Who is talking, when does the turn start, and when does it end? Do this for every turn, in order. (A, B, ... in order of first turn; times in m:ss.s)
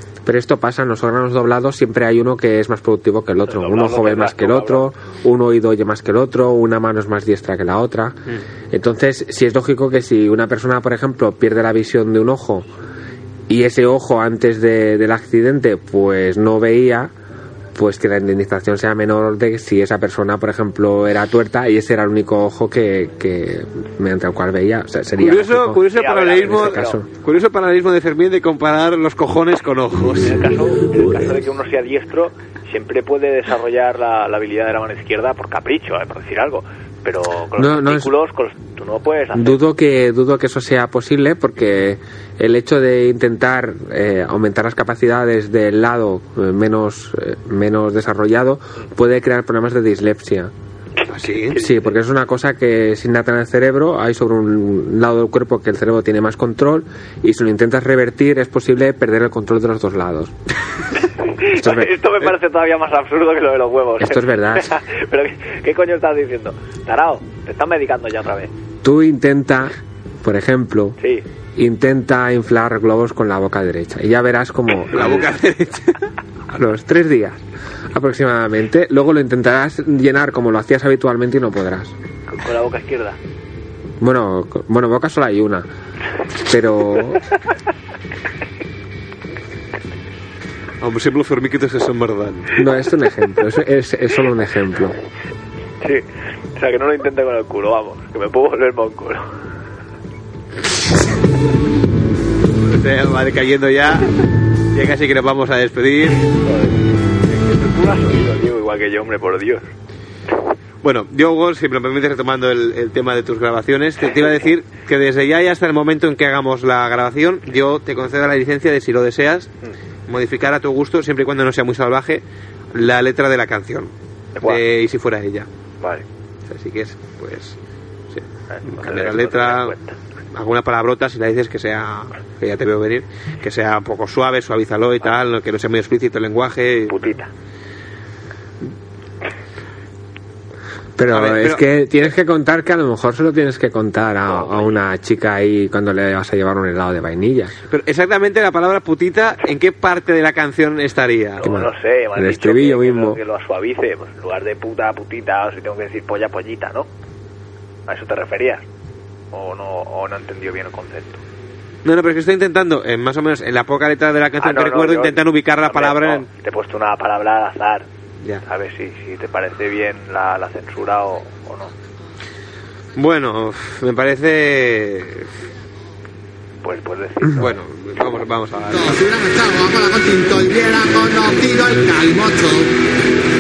0:00.2-0:12.7 A
0:03.4-0:04.9 B
0:13.5-0:17.1 A
0:17.8-0:27.1 A
0:25.2-0:30.5 C
0:25.9-0:27.0 B
0:30.2-0:39.7 B
0:37.6-0:38.2 A
0:39.3-0:50.5 A
0:51.1-0:51.6 C
0:51.5-0:51.9 B
0:51.5-1:00.3 A
1:01.4-1:08.5 B
1:01.5-1:02.0 A
1:04.0-1:04.8 A
1:08.8-1:11.0 A
1:11.6-1:15.3 A
1:14.9-1:16.0 C
1:16.5-1:17.4 A
1:17.9-1:21.9 A
1:22.3-1:23.2 B
1:24.0-1:25.7 A
1:26.4-1:27.3 A
1:30.8-1:32.6 C
1:32.5-1:35.0 A
1:36.6-1:39.3 B
1:42.6-1:44.1 C
1:44.7-1:46.3 C
1:46.4-1:49.7 B
1:50.8-1:59.5 C
2:00.1-2:03.9 C
2:04.4-2:04.6 B
2:04.4-2:05.5 C
2:05.8-2:06.0 B
2:06.5-2:07.6 C
2:08.1-2:09.8 C
2:08.5-2:10.0 B
2:10.3-2:17.2 C
2:16.9-2:17.3 B
2:21.0-2:27.6 A
2:21.1-2:21.6 C
2:24.3-2:24.8 B
2:27.7-2:31.6 C
2:31.4-2:36.9 B
2:31.4-2:33.2 A
2:37.9-2:38.6 B
2:39.3-2:41.2 B
2:41.8-2:46.3 C
2:44.4-2:47.9 B
2:48.4-2:51.7 B
2:53.0-2:55.3 C
2:56.6-2:57.6 B
2:57.4-2:59.1 C
2:58.8-3:02.7 D